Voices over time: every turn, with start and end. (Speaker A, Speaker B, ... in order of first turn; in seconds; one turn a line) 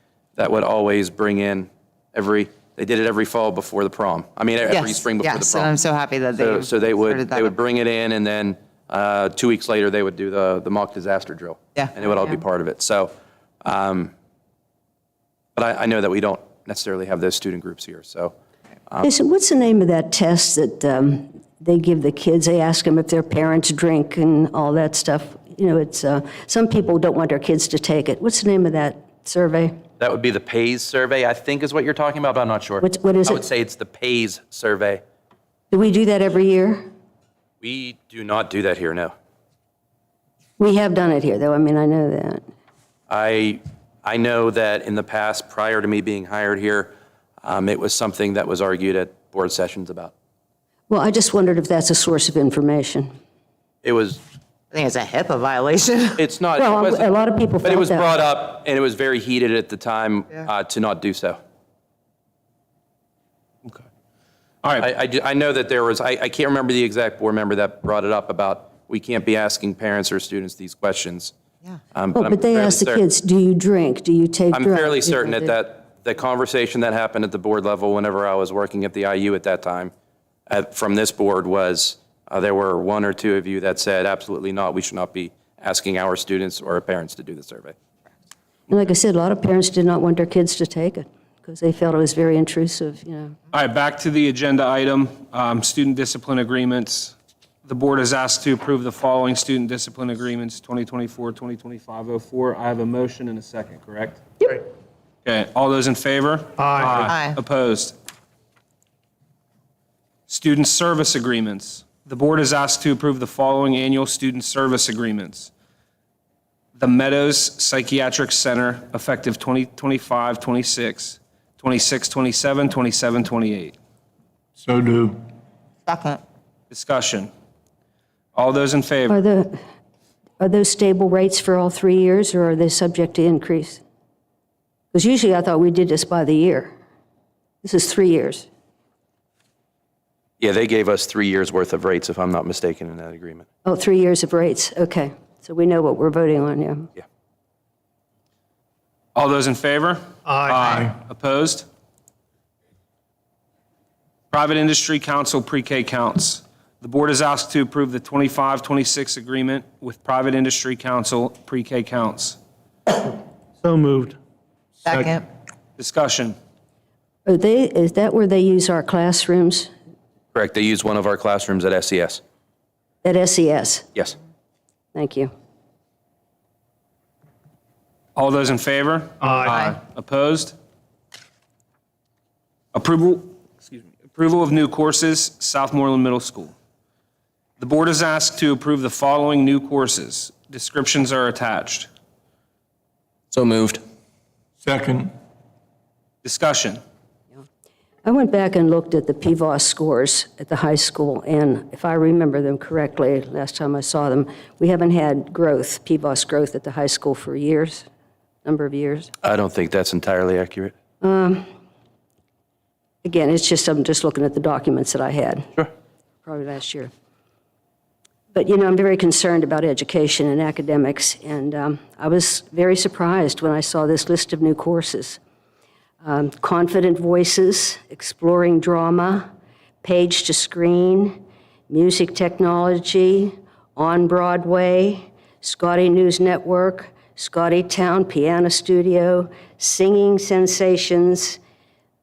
Speaker A: 0.3-5.7
Speaker B: 4.7-7.5
Speaker A: 6.3-14.1
Speaker A: 15.6-18.3
Speaker C: 19.0-29.7
Speaker A: 30.0-35.0
Speaker C: 32.8-33.4
Speaker C: 35.7-36.9
Speaker A: 37.6-39.1
Speaker C: 40.6-42.4
Speaker A: 43.1-46.9
Speaker A: 47.4-50.1
Speaker C: 50.9-53.1
Speaker A: 53.8-54.2
Speaker B: 54.7-56.2
Speaker A: 56.2-57.1
Speaker C: 56.5-58.1
Speaker A: 57.6-61.4
Speaker A: 64.8-71.3
Speaker A: 71.9-73.0
Speaker C: 72.1-75.5
Speaker A: 74.5-79.9
Speaker A: 80.5-87.8
Speaker C: 88.7-93.3
Speaker D: 93.5-104.2
Speaker D: 105.2-107.9
Speaker E: 106.7-107.1
Speaker B: 107.0-107.4
Speaker D: 110.3-115.5
Speaker D: 116.8-123.7
Speaker E: 124.6-125.2
Speaker B: 125.8-126.2
Speaker D: 126.7-127.3
Speaker D: 128.3-129.2
Speaker C: 129.1-129.6
Speaker C: 130.4-133.8
Speaker C: 134.9-136.7
Speaker C: 137.6-138.5
Speaker A: 140.4-143.4
Speaker C: 143.6-146.9
Speaker D: 149.1-151.6
Speaker E: 150.2-150.9
Speaker D: 154.3-162.4
Speaker E: 163.6-164.2
Speaker B: 164.8-165.2
Speaker D: 165.8-166.3
Speaker C: 167.2-169.7
Speaker A: 170.3-172.2
Speaker C: 173.0-173.9
Speaker C: 174.9-175.3
Speaker D: 178.2-180.5
Speaker E: 179.2-179.6
Speaker D: 182.7-186.5
Speaker D: 187.6-191.9
Speaker E: 194.6-195.1
Speaker D: 196.2-196.8
Speaker C: 198.0-207.8
Speaker C: 208.4-209.1
Speaker A: 209.2-210.7
Speaker C: 211.0-211.4
Speaker C: 213.0-215.7
Speaker C: 216.2-216.9
Speaker C: 218.3-225.2
Speaker C: 226.0-229.2
Speaker C: 229.8-241.4